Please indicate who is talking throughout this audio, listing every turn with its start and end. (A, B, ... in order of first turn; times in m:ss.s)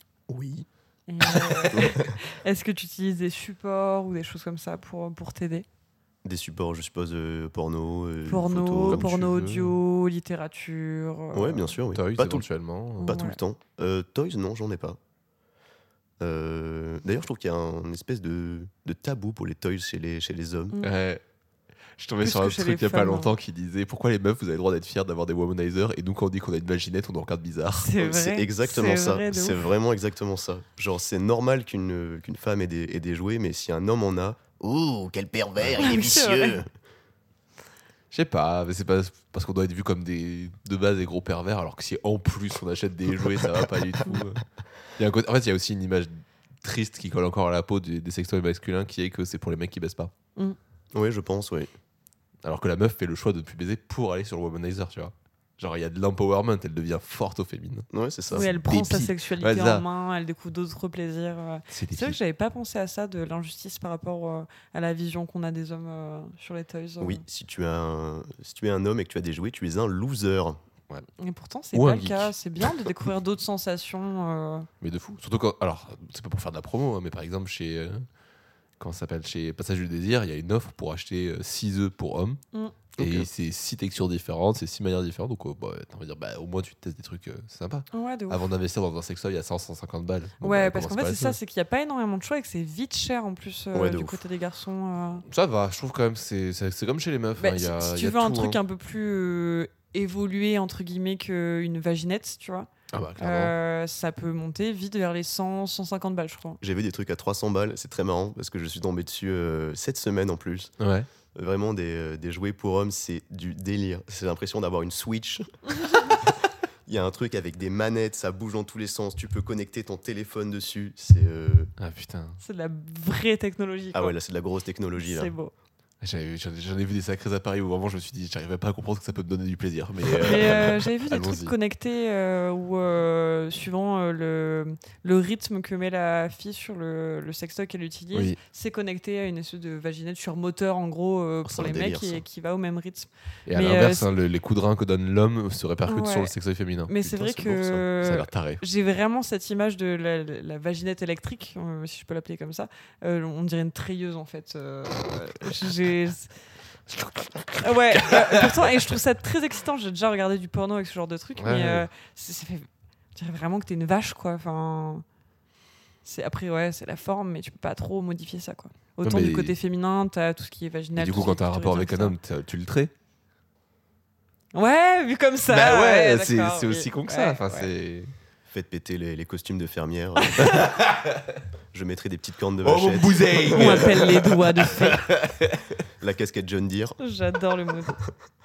0:00.3-0:00.7 A
0:01.1-0:05.7 B
0:01.3-0:02.2 A
0:06.2-0:09.0 A
0:08.3-0:11.8 B
0:08.9-0:09.8 C
0:11.3-0:12.5 A
0:11.9-0:13.2 C
0:13.0-0:13.4 B
0:13.0-0:15.0 A
0:16.2-0:20.8 A
0:20.8-0:21.2 C
0:22.0-0:27.9 C
0:22.2-0:23.3 B
0:27.7-0:29.7 B
0:28.0-0:36.7 A
0:35.8-0:36.6 B
0:38.1-0:44.4 C
0:45.0-0:50.1 C
0:50.9-0:51.7 A
0:52.4-0:59.8 C
0:57.9-0:58.5 A
0:58.3-1:07.2 B
1:01.7-1:02.2 C
1:07.0-1:10.6 A
1:11.2-1:14.7 B
1:11.7-1:12.7 C
1:14.8-1:18.1 C
1:18.8-1:22.4 C
1:22.5-1:22.8 B
1:23.0-1:23.3 A
1:23.0-1:31.4 C
1:27.9-1:28.4 B
1:30.4-1:35.2 B
1:33.7-1:34.2 A
1:35.3-1:38.6 C
1:37.4-1:46.6 B
1:42.9-1:43.6 C
1:46.6-1:50.7 A
1:50.8-1:51.1 C
1:51.3-2:01.7 A
2:01.8-2:02.4 C
2:02.4-2:04.2 B
2:03.9-2:05.3 A
2:05.0-2:05.5 B
2:06.0-2:11.5 C
2:10.2-2:24.1 B
2:18.1-2:18.4 C
2:21.4-2:22.2 A
2:23.5-2:26.9 C
2:25.9-2:26.3 B
2:26.9-2:36.3 B
2:27.0-2:27.8 A
2:28.0-2:28.6 C
2:36.9-2:38.7 C
2:37.6-2:45.0 B
2:41.4-2:41.9 C
2:46.0-2:52.2 B
2:49.0-2:49.6 C
2:51.0-2:52.9 C
2:54.5-2:57.7 B
2:55.5-2:58.1 C
2:58.5-3:00.6 A
3:00.2-3:00.6 B
3:00.4-3:01.4 C
3:01.7-3:03.9 A
3:02.6-3:05.8 C
3:03.5-3:05.1 B
3:06.0-3:07.0 A
3:07.0-3:08.0 B